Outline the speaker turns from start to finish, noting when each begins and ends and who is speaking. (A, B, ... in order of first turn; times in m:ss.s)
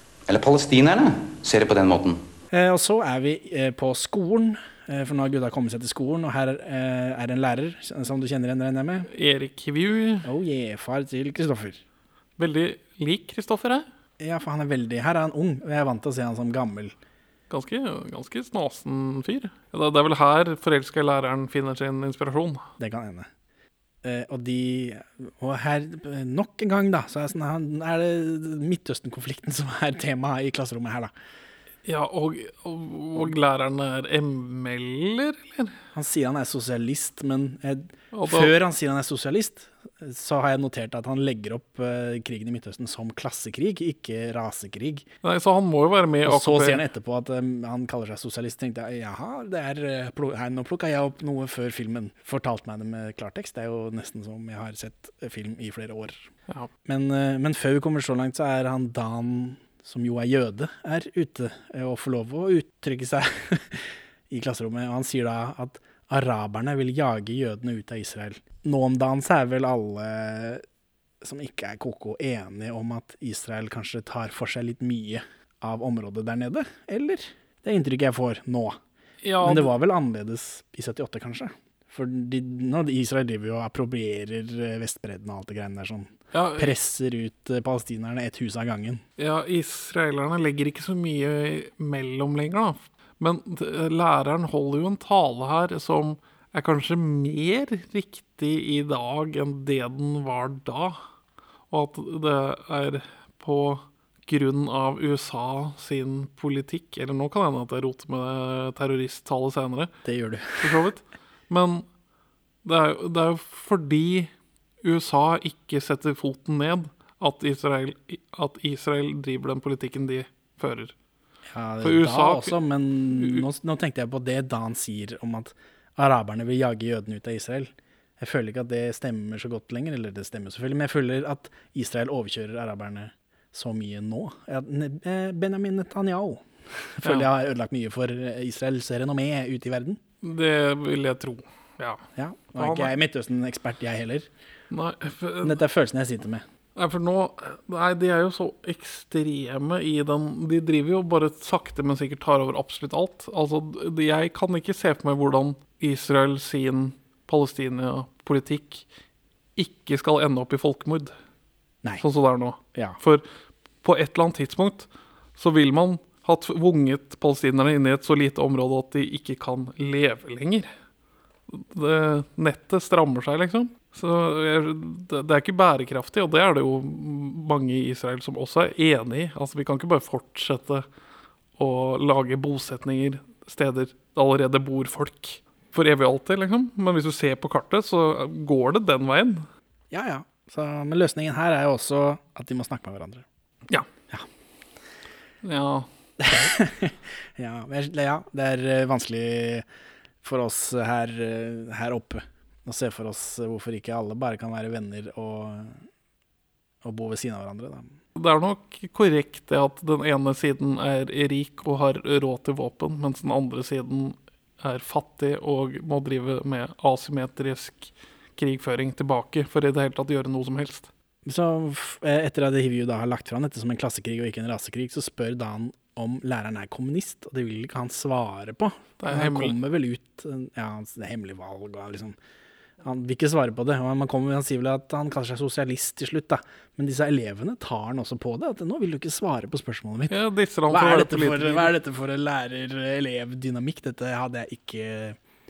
0:00.3-0:02.2 A
0:02.5-0:09.1 B
0:09.1-0:10.3 C
0:10.2-0:11.8 B
0:12.4-0:13.9 C
0:14.2-0:16.9 B
0:17.5-0:22.6 C
0:22.8-0:23.3 B
0:24.0-0:31.1 B
0:31.8-0:35.7 C
0:35.9-0:45.1 B
0:38.1-0:38.5 C
0:45.2-0:46.8 C
0:46.3-0:56.2 B
0:56.8-1:10.6 B
1:11.2-1:18.8 B
1:19.2-1:19.7 C
1:19.4-1:29.0 B
1:26.3-1:26.7 C
1:29.2-1:41.0 C
1:41.7-1:49.9 C
1:50.0-1:50.8 B
1:50.6-1:51.9 C
1:52.6-1:54.3 C
1:54.8-2:00.9 C
2:01.5-2:20.0 B
2:01.8-2:02.6 C
2:03.2-2:03.4 C
2:17.0-2:17.3 C
2:20.2-2:22.0 C
2:22.2-2:24.3 B
2:22.6-2:22.9 C
2:24.7-2:25.6 C
2:25.4-2:26.4 B
2:26.8-2:38.8 C
2:39.6-2:41.1 C
2:42.0-2:43.3 C
2:43.8-2:50.7 C
2:51.5-3:00.9 C
3:01.6-3:09.5 C
3:09.9-3:13.2 B
3:15.4-3:15.9 C
3:16.2-3:19.6 B
3:20.2-3:25.9 B
3:26.8-3:28.0 B
3:28.2-3:40.9 C
3:41.3-3:52.2 B
3:49.0-3:49.6 C
3:52.8-4:00.2 B
4:00.1-4:01.7 C
4:00.7-4:05.2 B